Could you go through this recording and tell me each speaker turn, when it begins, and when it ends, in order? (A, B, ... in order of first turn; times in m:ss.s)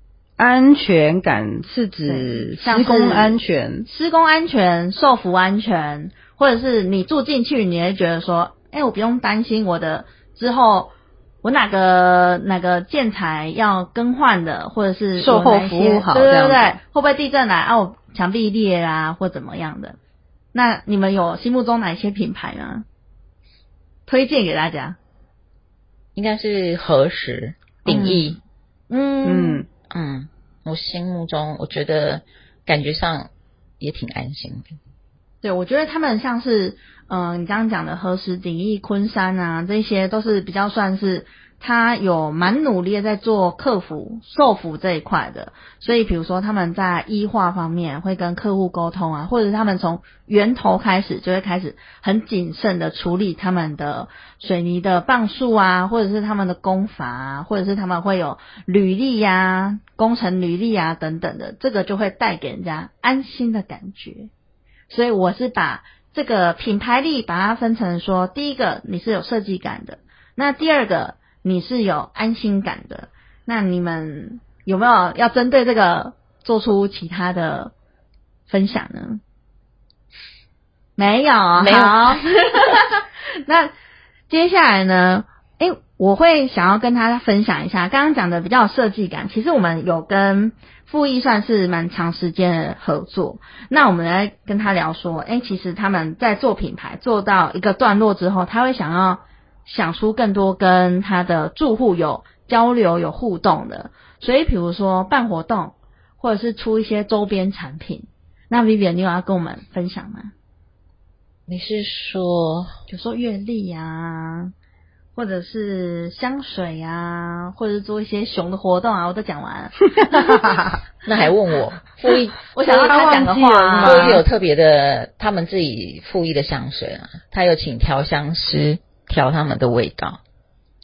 0:00.4-0:03.8 A
0:02.0-0:10.9 B
0:11.4-0:20.0 B
0:15.2-0:16.8 A
0:20.5-0:22.8 B
0:24.1-0:25.0 B
0:26.1-0:28.4 C
0:27.8-0:28.4 B
0:28.9-0:29.6 B
0:29.2-0:29.6 A
0:29.9-0:34.7 C
0:35.4-1:04.3 B
1:04.9-1:17.7 B
1:18.5-1:19.2 B
1:21.0-1:23.7 B
1:21.6-1:22.2 C
1:24.3-1:50.3 B
1:51.5-1:52.7 C
1:52.9-1:54.5 B
1:55.2-2:00.4 B
2:00.1-2:00.7 A
2:01.0-2:02.4 C
2:02.5-2:04.2 B
2:02.6-2:04.2 A
2:03.8-2:10.2 C